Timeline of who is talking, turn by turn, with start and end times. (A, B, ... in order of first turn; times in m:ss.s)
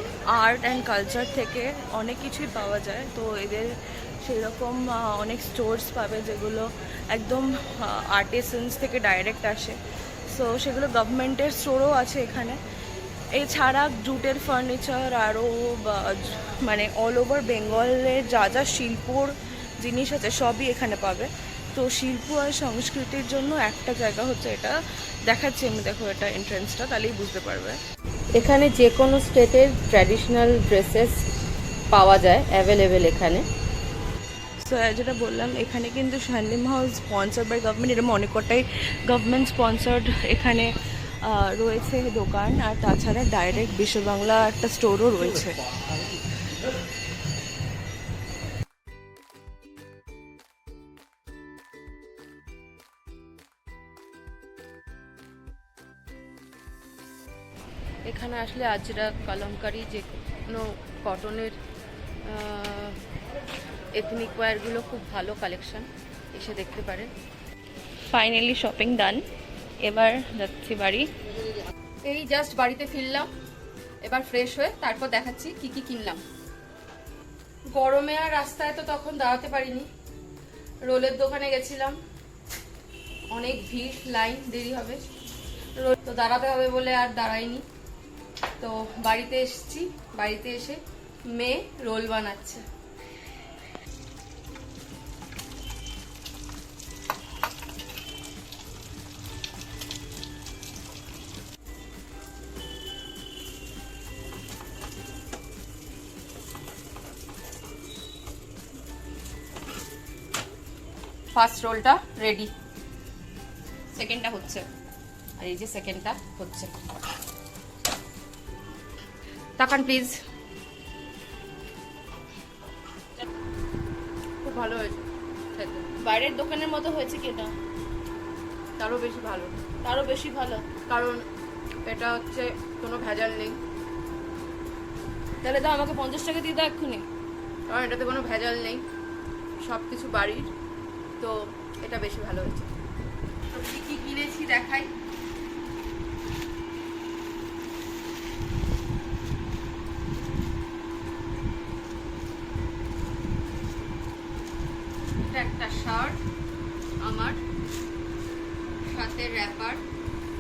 0:00.3-0:12.6 A
0:13.3-0:27.8 A
0:28.3-0:31.2 B
0:31.9-0:33.4 B
0:34.6-0:40.7 A
0:41.2-0:45.6 A
0:58.1-1:01.6 B
1:02.2-1:03.0 B
1:03.9-1:07.1 B
1:08.1-1:09.3 A
1:09.8-1:11.1 A
1:12.0-1:13.3 B
1:14.0-1:16.2 B
1:17.7-1:19.9 B
1:20.8-1:22.0 B
1:23.3-1:25.0 B
1:25.8-1:27.6 B
1:28.6-1:30.8 B
1:31.3-1:32.6 B
1:51.3-1:52.5 B
1:53.9-1:54.6 A
1:55.4-1:56.7 B
1:59.6-2:00.2 B
2:04.4-2:05.9 B
2:06.0-2:07.5 A
2:08.8-2:09.6 B
2:09.8-2:10.7 A
2:10.9-2:11.2 B
2:11.9-2:13.6 B
2:15.4-2:17.1 A
2:17.7-2:18.8 B
2:19.6-2:20.5 B
2:21.2-2:22.7 B
2:23.5-2:24.9 B
2:35.2-2:36.2 B
2:37.0-2:37.4 B
2:38.8-2:39.8 B